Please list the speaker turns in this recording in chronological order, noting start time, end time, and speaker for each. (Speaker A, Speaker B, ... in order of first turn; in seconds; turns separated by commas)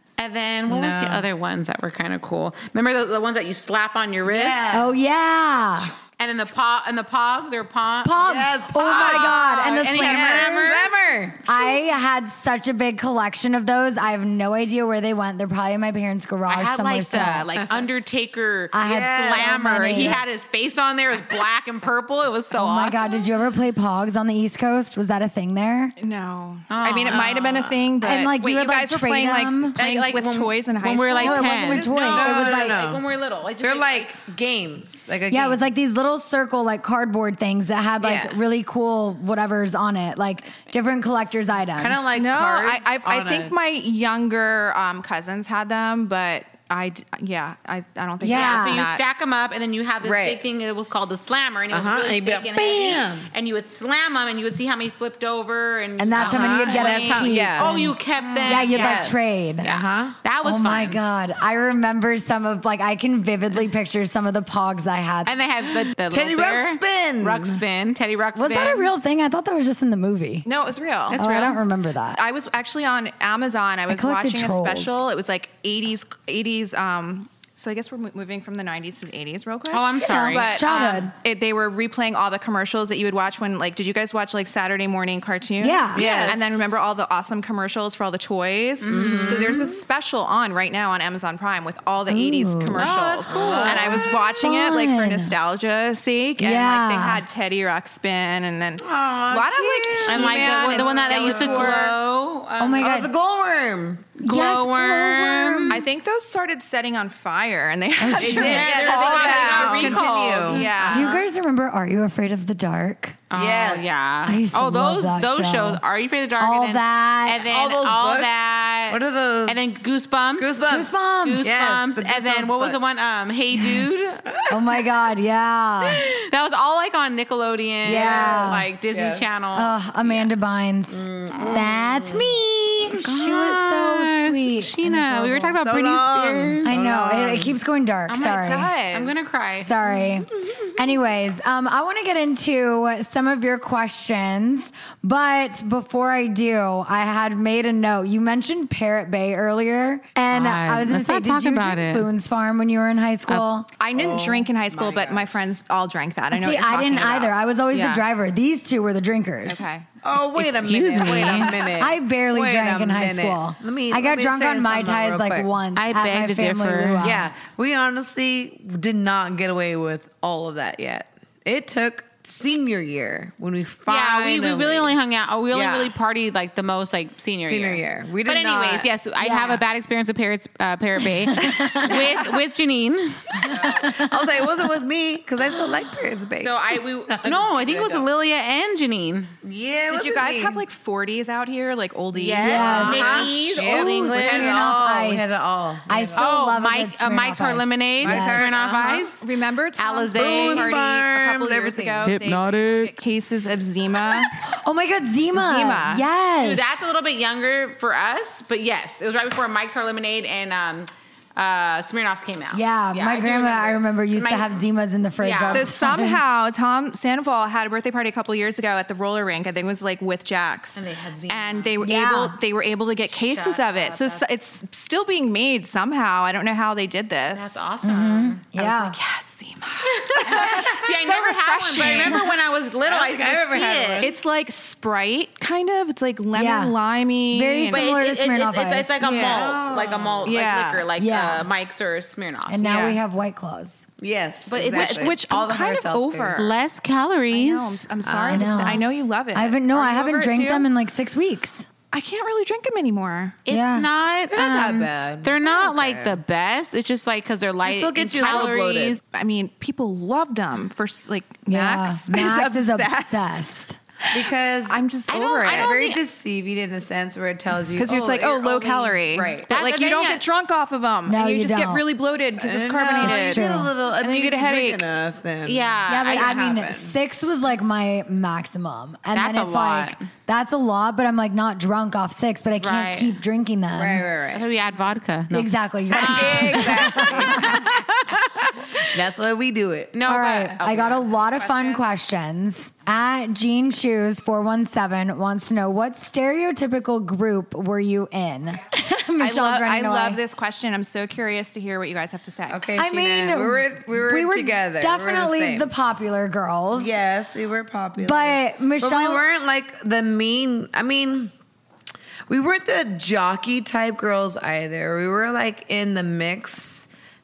Speaker A: 0.2-4.8, Speaker B: 0.7-1.2, Speaker B: 4.2-4.9, Speaker C: 4.7-5.9, Speaker A: 6.2-11.0, Speaker C: 8.0-10.7, Speaker B: 8.2-11.6, Speaker C: 11.5-17.5, Speaker A: 16.4-23.3, Speaker C: 18.7-20.2, Speaker B: 18.8-19.8, Speaker C: 22.5-25.9, Speaker D: 26.0-31.8, Speaker A: 26.7-27.2, Speaker B: 27.1-27.8, Speaker C: 28.0-29.7, Speaker A: 29.8-34.1, Speaker C: 31.2-32.8, Speaker B: 31.7-33.0, Speaker B: 33.6-35.6, Speaker C: 35.3-42.0, Speaker B: 38.0-38.4, Speaker B: 41.8-43.5, Speaker D: 42.1-49.0, Speaker C: 48.2-48.8, Speaker A: 48.3-61.0, Speaker B: 50.0-50.4, Speaker B: 51.7-53.3, Speaker C: 56.0-59.7, Speaker B: 56.1-57.8, Speaker B: 58.4-60.2, Speaker C: 60.4-65.3, Speaker A: 65.2-68.9, Speaker B: 66.0-67.6, Speaker C: 68.3-70.5, Speaker D: 70.5-71.2, Speaker A: 71.1-71.6, Speaker C: 71.1-72.2, Speaker D: 72.1-102.1, Speaker C: 73.9-75.0, Speaker A: 79.7-80.5, Speaker C: 80.0-81.1, Speaker C: 85.6-86.1, Speaker B: 85.9-86.7, Speaker A: 86.0-86.3, Speaker A: 88.8-89.7, Speaker B: 88.9-89.8, Speaker C: 92.1-95.3, Speaker A: 92.8-93.8, Speaker B: 92.9-94.0, Speaker C: 96.4-97.2, Speaker B: 98.8-101.9, Speaker A: 100.0-102.9, Speaker C: 102.6-103.1, Speaker B: 102.8-104.2, Speaker C: 104.2-105.8, Speaker A: 104.2-105.8, Speaker D: 105.7-111.2, Speaker C: 108.0-108.7, Speaker B: 108.2-111.0, Speaker A: 108.2-111.0, Speaker C: 110.9-113.2, Speaker A: 113.3-124.2, Speaker B: 113.3-114.1, Speaker C: 114.2-115.8, Speaker C: 116.4-117.5, Speaker B: 117.4-118.3, Speaker B: 118.9-122.8, Speaker C: 120.7-121.5, Speaker C: 123.5-123.8, Speaker B: 124.3-124.6, Speaker C: 124.5-126.0, Speaker A: 126.1-130.2, Speaker C: 127.8-128.7, Speaker B: 127.8-129.3, Speaker C: 129.5-135.5, Speaker B: 130.9-132.4, Speaker A: 133.0-136.8, Speaker B: 135.5-137.6, Speaker C: 136.6-138.7, Speaker A: 138.1-139.7, Speaker D: 138.2-139.3, Speaker C: 139.6-153.7, Speaker A: 150.3-152.1, Speaker D: 153.8-158.0, Speaker B: 153.9-155.4, Speaker C: 156.3-159.6, Speaker D: 159.4-159.8, Speaker B: 160.0-165.5, Speaker A: 160.2-161.5, Speaker D: 161.0-161.7, Speaker C: 161.8-167.3, Speaker A: 165.8-167.2, Speaker B: 167.0-174.9, Speaker A: 173.9-183.7, Speaker B: 175.5-175.9, Speaker B: 177.4-178.9, Speaker C: 179.2-179.6, Speaker C: 181.3-182.0, Speaker B: 183.4-188.1, Speaker C: 183.8-184.1, Speaker A: 186.4-189.3, Speaker B: 189.4-190.6, Speaker D: 189.9-193.3, Speaker A: 192.1-194.7, Speaker B: 192.2-196.3, Speaker C: 192.4-195.3, Speaker C: 195.9-198.4, Speaker A: 196.2-199.2, Speaker B: 198.0-199.0, Speaker D: 198.2-204.5, Speaker A: 199.8-200.8, Speaker B: 200.1-202.3, Speaker C: 204.4-206.6, Speaker D: 205.3-206.1, Speaker A: 206.4-214.6, Speaker C: 212.5-216.2, Speaker A: 215.2-215.7, Speaker D: 215.4-227.6, Speaker A: 220.8-221.7, Speaker C: 221.8-222.3, Speaker A: 223.1-224.2, Speaker A: 227.3-228.4, Speaker C: 227.8-228.9, Speaker D: 228.5-232.2, Speaker A: 229.9-234.1, Speaker B: 230.3-230.6, Speaker B: 231.7-232.3, Speaker B: 232.8-234.1, Speaker D: 234.0-237.9, Speaker C: 236.3-236.7, Speaker C: 237.3-238.9, Speaker A: 237.7-243.0, Speaker B: 239.0-240.9, Speaker D: 239.0-239.8, Speaker C: 241.0-241.5, Speaker C: 242.5-243.9, Speaker B: 244.0-246.5, Speaker A: 244.5-245.1, Speaker D: 244.5-246.5, Speaker A: 246.3-247.9, Speaker D: 247.3-250.7, Speaker B: 248.0-248.8, Speaker C: 248.3-251.7, Speaker D: 251.9-253.4, Speaker A: 253.4-259.0, Speaker C: 253.5-253.9, Speaker B: 254.3-256.2, Speaker B: 257.6-259.0, Speaker D: 259.1-263.4, Speaker C: 261.5-263.8, Speaker B: 264.1-264.8, Speaker D: 264.7-265.7, Speaker A: 265.1-266.0, Speaker B: 265.3-269.5, Speaker D: 267.7-274.8, Speaker A: 269.5-270.2, Speaker C: 271.1-271.8, Speaker B: 272.4-276.9, Speaker C: 273.0-273.7, Speaker A: 275.4-276.4, Speaker C: 275.9-284.0, Speaker A: 279.1-280.0, Speaker A: 282.5-283.2, Speaker B: 283.7-284.5, Speaker A: 284.3-288.3, Speaker C: 285.3-287.4, Speaker B: 285.9-287.9, Speaker B: 288.8-289.9, Speaker A: 289.9-291.1, Speaker C: 290.1-300.2, Speaker D: 291.3-291.9, Speaker D: 299.2-302.7, Speaker B: 302.5-305.7, Speaker C: 302.8-306.9, Speaker B: 306.7-311.3, Speaker C: 308.0-309.2, Speaker B: 312.3-316.9